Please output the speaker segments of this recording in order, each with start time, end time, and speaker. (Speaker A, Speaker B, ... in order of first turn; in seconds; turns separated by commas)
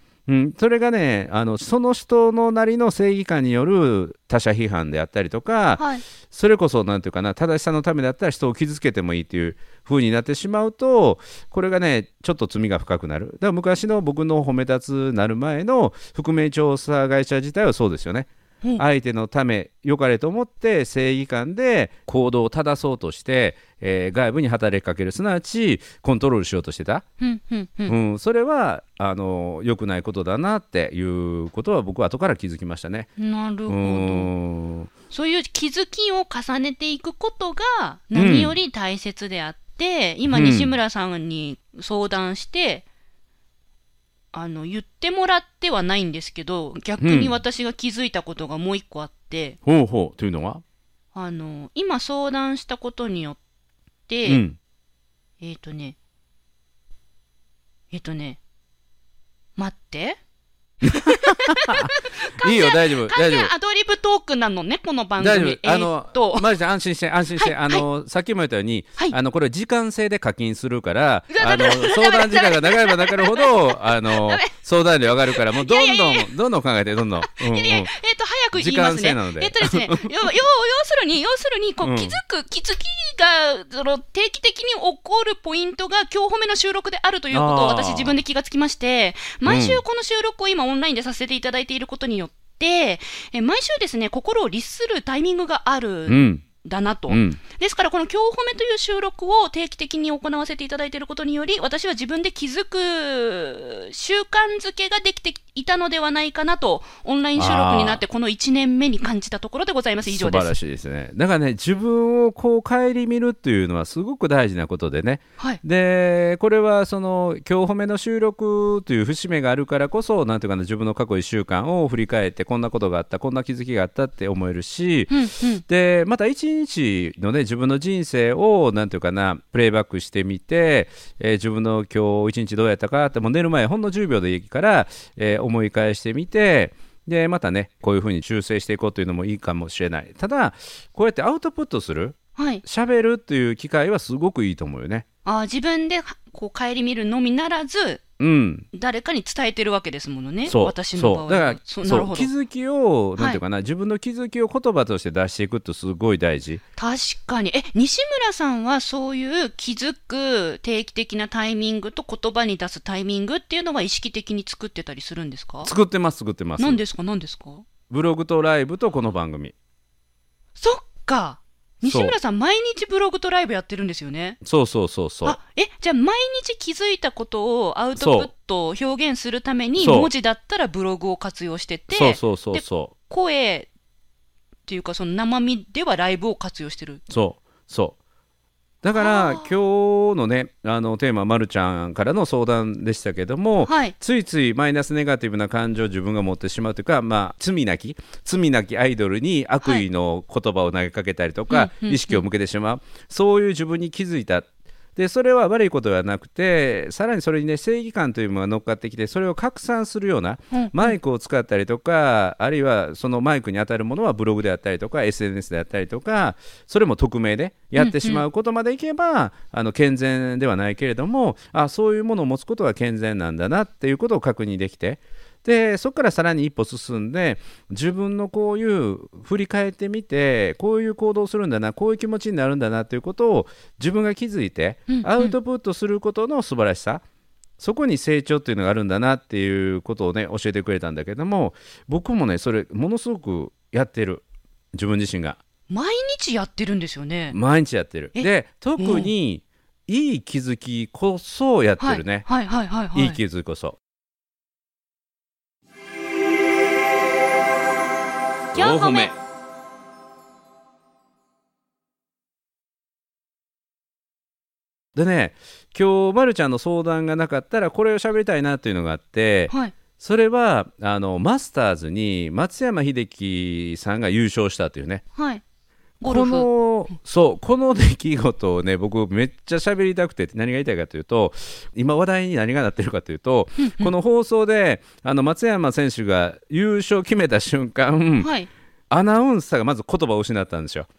Speaker A: 0.3-27.0, Speaker B: 5.8-6.0, Speaker B: 27.2-27.9, Speaker A: 27.9-33.1, Speaker B: 33.2-34.3, Speaker A: 33.7-34.9, Speaker B: 35.1-42.8, Speaker A: 38.1-38.5, Speaker A: 40.3-40.7, Speaker B: 44.3-49.6, Speaker A: 47.0-47.3, Speaker A: 49.6-50.6, Speaker B: 51.1-53.4, Speaker B: 54.1-54.4, Speaker A: 54.2-54.6, Speaker B: 55.4-56.0, Speaker B: 57.9-58.4, Speaker B: 59.5-60.2, Speaker B: 60.8-66.5, Speaker A: 60.8-63.5, Speaker A: 65.2-77.9, Speaker B: 67.3-67.8, Speaker B: 71.3-74.5, Speaker B: 75.3-76.3, Speaker B: 77.2-110.5, Speaker A: 78.5-80.1, Speaker A: 81.8-82.2, Speaker A: 87.3-88.2, Speaker A: 89.4-89.8, Speaker A: 96.1-96.4, Speaker A: 97.1-97.4, Speaker A: 107.3-108.0, Speaker A: 110.0-145.0, Speaker B: 125.1-125.6, Speaker B: 142.3-142.6, Speaker B: 145.2-148.0, Speaker A: 148.2-148.7, Speaker B: 148.7-152.3, Speaker A: 150.4-156.6, Speaker B: 156.8-165.7, Speaker A: 165.6-166.8, Speaker B: 166.6-167.6, Speaker A: 167.9-169.5, Speaker B: 170.6-174.4, Speaker A: 171.8-172.2, Speaker A: 174.4-175.4, Speaker B: 175.2-183.7, Speaker A: 178.0-178.3, Speaker A: 179.8-180.1, Speaker A: 181.9-182.9, Speaker B: 184.7-187.0, Speaker A: 187.1-187.9, Speaker A: 188.8-237.0, Speaker B: 188.9-189.5, Speaker B: 193.6-193.9, Speaker B: 201.5-202.2, Speaker B: 210.5-210.9, Speaker B: 217.8-218.2, Speaker B: 234.9-235.3, Speaker A: 237.6-245.4, Speaker B: 245.7-247.4, Speaker A: 247.3-252.3, Speaker B: 248.1-249.1, Speaker B: 251.8-253.2, Speaker A: 252.9-253.8, Speaker B: 258.5-259.1, Speaker A: 258.5-259.1, Speaker A: 264.9-275.0, Speaker B: 275.1-275.4, Speaker B: 276.0-276.5, Speaker A: 276.0-288.3, Speaker B: 283.6-283.9, Speaker B: 288.2-288.5, Speaker A: 288.9-290.9